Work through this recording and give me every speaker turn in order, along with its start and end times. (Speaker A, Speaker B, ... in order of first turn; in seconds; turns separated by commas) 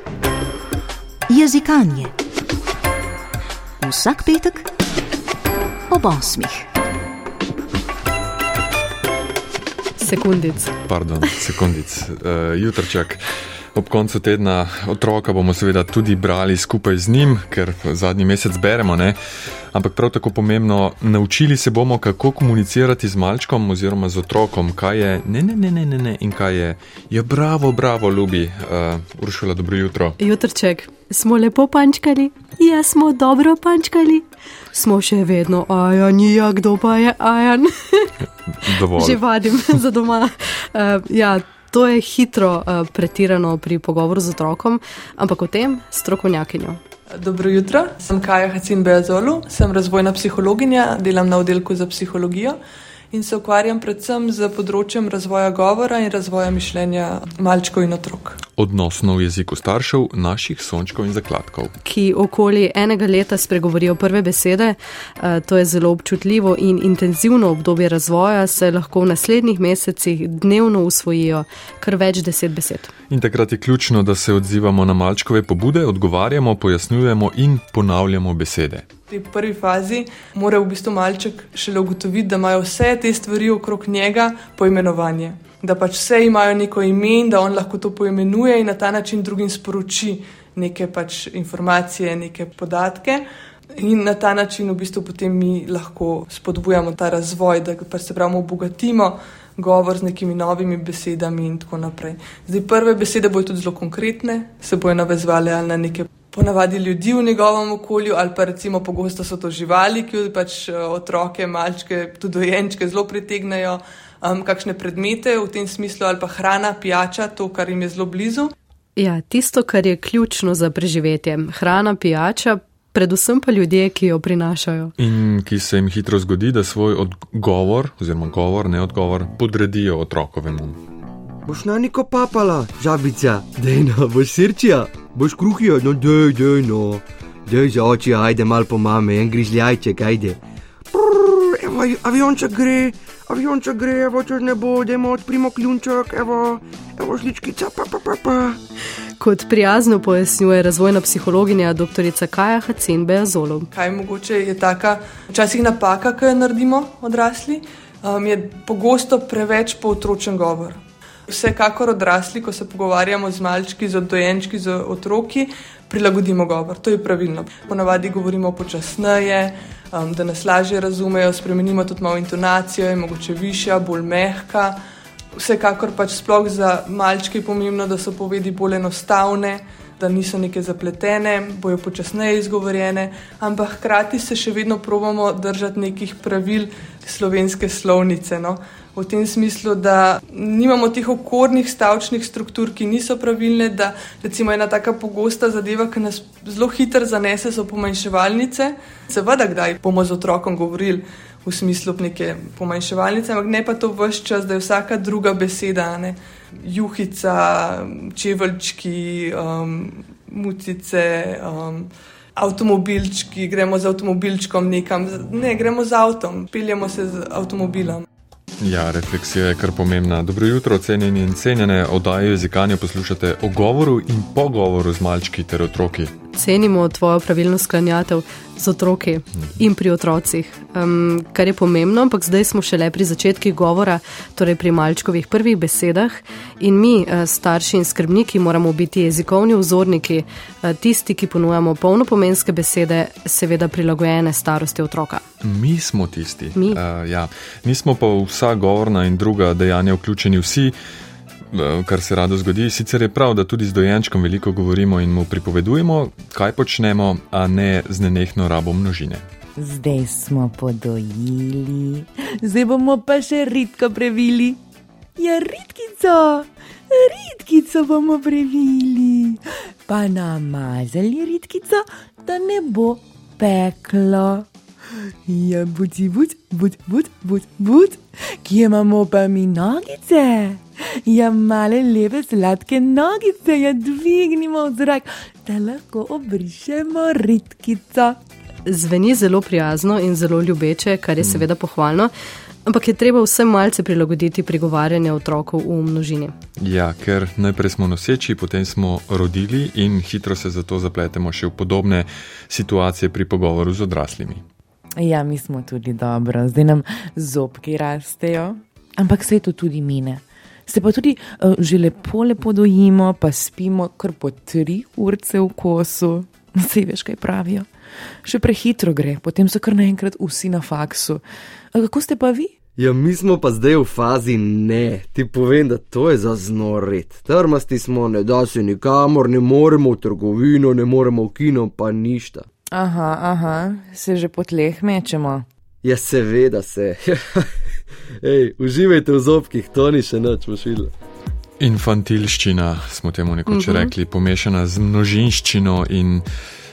Speaker A: 1.3-2.1, Speaker A: 3.8-4.7, Speaker A: 5.9-6.7, Speaker B: 10.0-10.8, Speaker C: 10.8-13.2, Speaker C: 13.7-19.2, Speaker C: 19.7-30.2, Speaker B: 30.2-38.2, Speaker C: 38.6-39.2, Speaker B: 38.7-46.8, Speaker D: 47.2-52.6, Speaker D: 53.1-58.4, Speaker C: 58.5-61.7, Speaker B: 61.9-72.9, Speaker C: 73.1-78.9, Speaker D: 79.1-93.2, Speaker D: 93.8-118.5, Speaker B: 119.0-124.9, Speaker C: 125.0-130.8, Speaker E: 131.4-140.4, Speaker E: 140.9-148.6, Speaker B: 149.2-153.7, Speaker D: 153.7-174.8, Speaker D: 175.3-218.1, Speaker C: 218.6-226.1, Speaker B: 226.3-245.2, Speaker C: 245.4-250.8, Speaker B: 246.5-246.8, Speaker C: 251.5-259.2, Speaker F: 259.6-264.6, Speaker F: 265.2-274.5, Speaker F: 275.2-288.2, Speaker B: 288.7-292.1, Speaker C: 291.2-291.5, Speaker B: 292.7-296.3, Speaker C: 296.6-304.4, Speaker F: 305.0-317.7, Speaker F: 318.2-322.5, Speaker E: 322.8-332.5, Speaker F: 332.7-335.5, Speaker E: 335.8-337.5, Speaker E: 338.2-340.9, Speaker C: 341.6-346.2, Speaker B: 343.5-343.9